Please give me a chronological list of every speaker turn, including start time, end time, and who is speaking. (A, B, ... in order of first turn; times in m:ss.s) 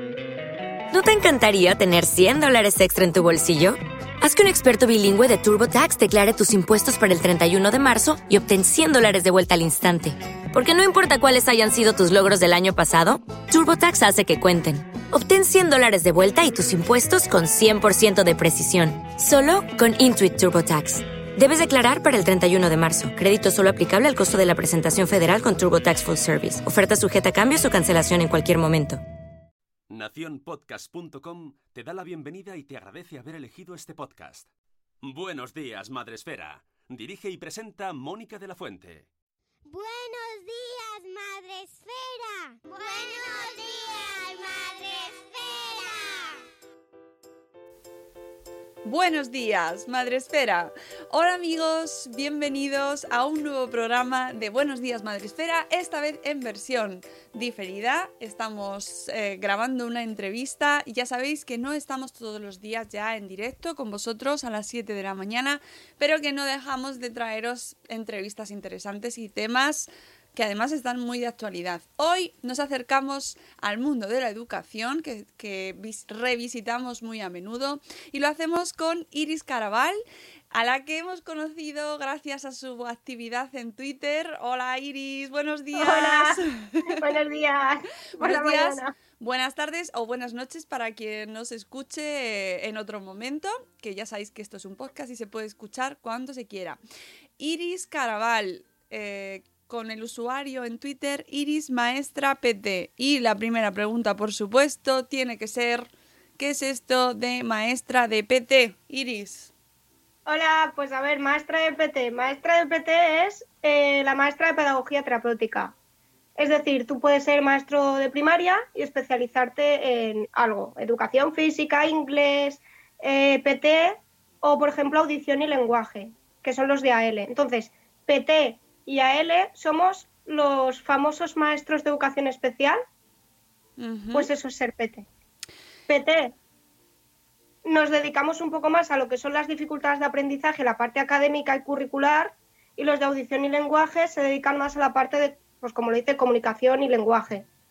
0:00.9-0:29.0 A
0:29.9-0:34.5 B
0:35.0-0:39.1 B
0:39.7-0:46.4 C
0:48.8-1:20.0 D
1:20.5-1:27.1 D
1:25.8-1:28.9 E
1:28.2-1:36.8 D
1:37.4-1:49.5 D
1:50.3-1:55.8 E
1:56.4-2:12.8 E
2:13.8-2:14.3 D
2:14.1-2:15.1 E
2:15.9-2:16.3 E
2:17.6-2:27.5 E